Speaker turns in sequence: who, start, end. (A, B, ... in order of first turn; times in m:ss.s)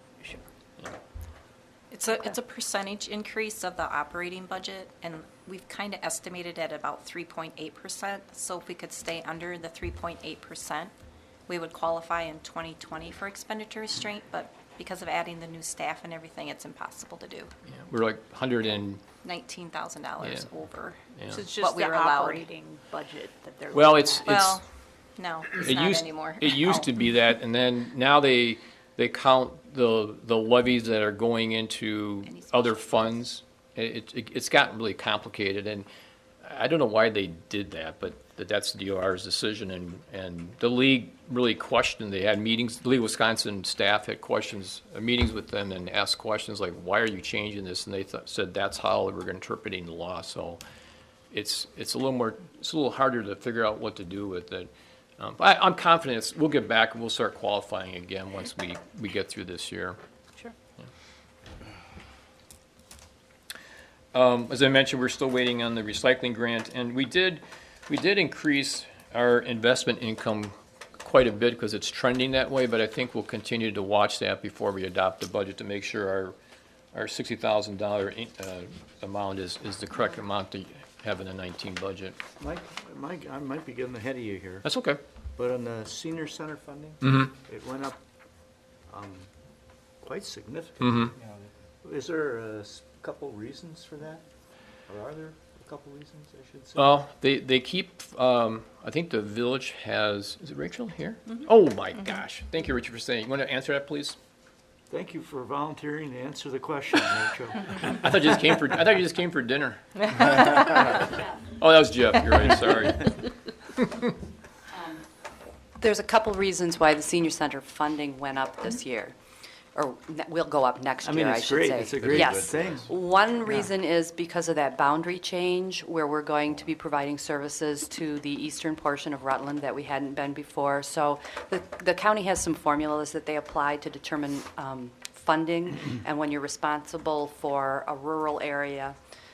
0:01.9-0:10.9 A
0:11.5-0:17.5 A
0:17.7-0:19.0 B
0:19.2-0:21.0 A
0:20.2-0:20.4 B
0:21.2-0:21.4 B
0:21.3-0:24.3 C
0:21.5-0:22.4 A
0:23.7-0:24.6 B
0:24.2-0:24.6 A
0:25.2-0:26.8 A
0:25.6-0:35.9 B
0:32.4-0:33.1 A
0:36.4-0:50.6 B
0:51.3-1:00.0 B
1:04.1-1:16.3 B
1:16.9-1:22.2 B
1:22.4-1:24.6 D
1:24.6-1:25.0 B
1:25.4-1:28.0 D
1:27.0-1:27.3 B
1:28.9-1:29.3 D
1:30.0-1:34.2 D
1:30.8-1:31.1 B
1:34.9-1:36.9 D
1:36.8-1:44.2 B
1:44.9-1:48.0 D
1:47.8-1:53.1 B
1:55.8-1:59.1 E
1:59.7-2:19.0 E
2:01.0-2:02.9 D